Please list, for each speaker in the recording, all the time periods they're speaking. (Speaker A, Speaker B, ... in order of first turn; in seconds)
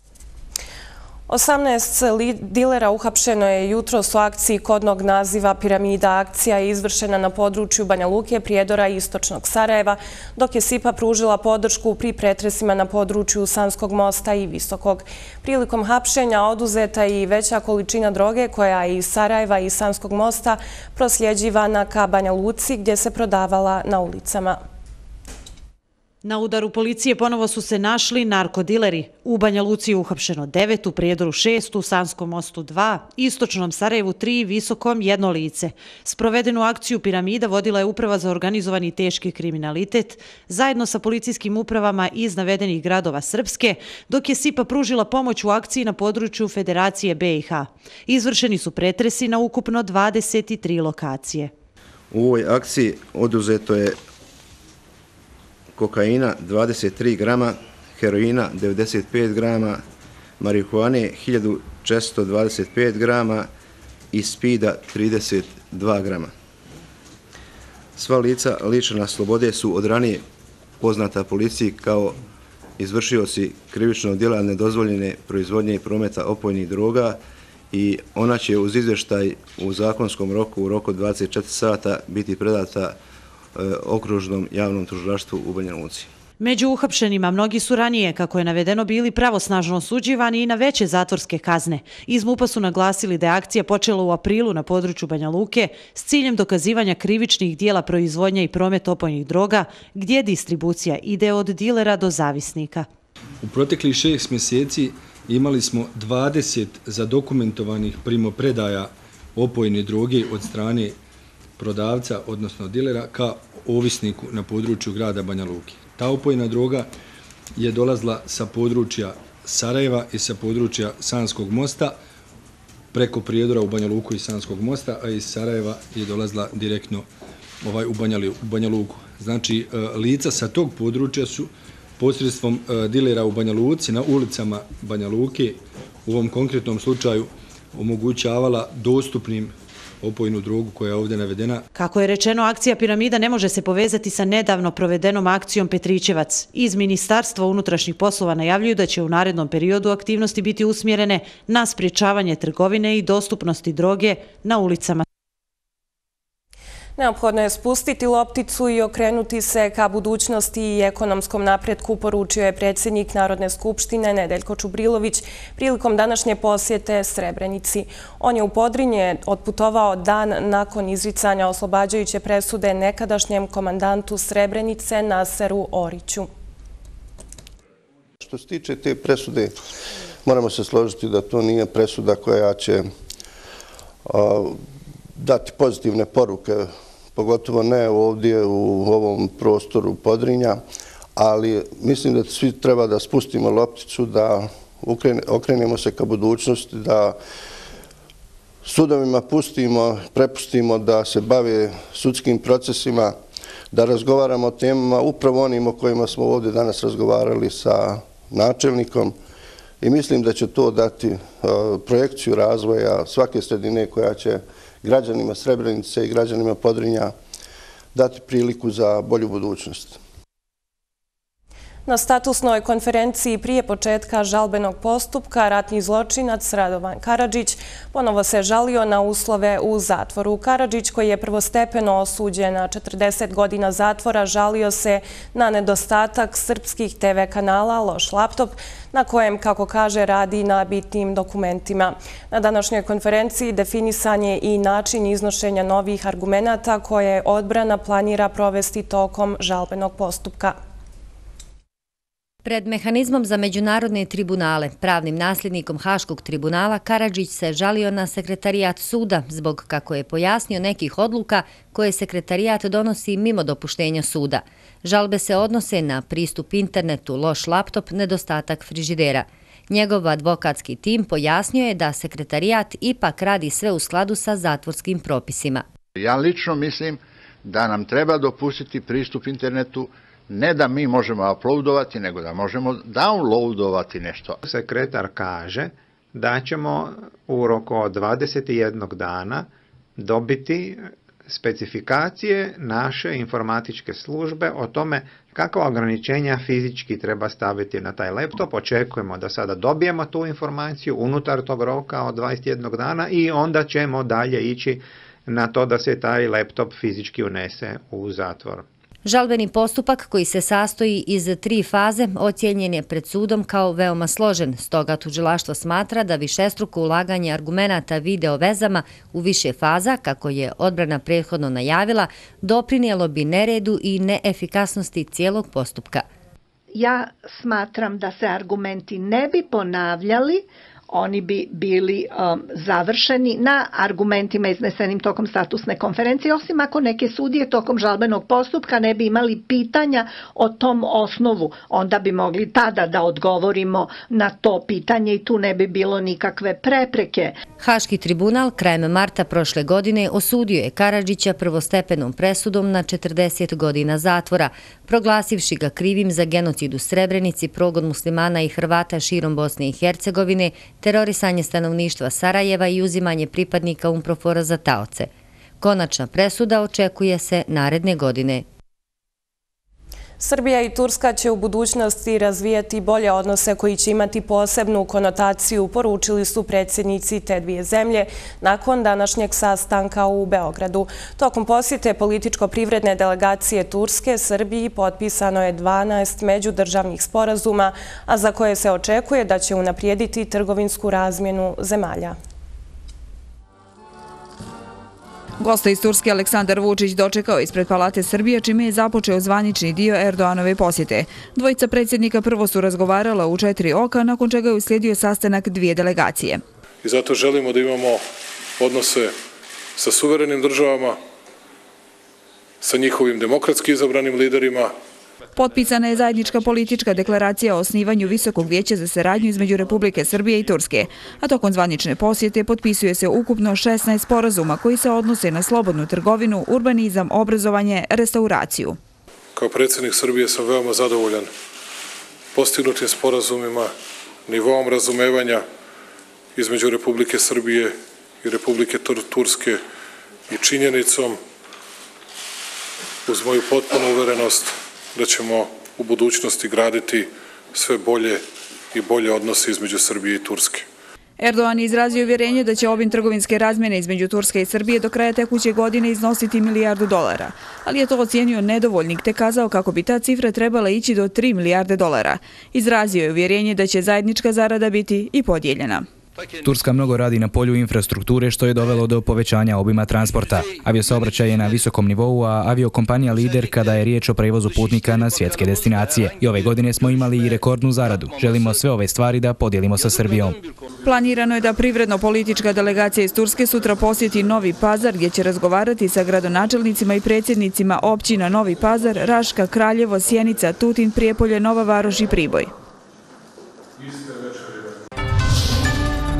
Speaker A: 1.3-24.6, 157.0-176.3, 221.8-250.6, 370.2-392.2
Speaker B: 26.2-51.5, 86.4-102.9, 141.7-155.0
Speaker C: 52.1-54.0, 55.8-59.8, 60.4-63.5, 64.1-66.3, 68.0-70.2, 70.8-72.2, 72.8-77.2, 77.7-83.0, 83.5-86.1
Speaker D: 103.4-110.9, 111.6-116.9, 117.6-122.0, 122.9-127.0, 127.6-141.6
Speaker E: 178.2-179.5, 180.2-182.9, 184.1-184.6, 185.2-190.6, 191.2-197.2, 198.6-203.2, 203.7-209.1, 209.8-217.1, 217.9-220.0
Speaker F: 252.4-275.6, 309.0-326.1, 347.6-365.1, 365.6-368.4
Speaker G: 275.9-284.4
Speaker H: 284.4-308.6
Speaker I: 326.7-347.3
Speaker J: 395.4-406.4, 415.4-428.8, 451.2-465.9, 480.8-492.5
Speaker K: 406.8-408.0, 408.6-409.1, 409.8-411.0, 412.6-414.7, 429.4-431.3, 432.3-433.7, 434.3-435.4, 436.3-439.6, 440.3-441.2, 443.1-450.6
Speaker L: 466.4-480.4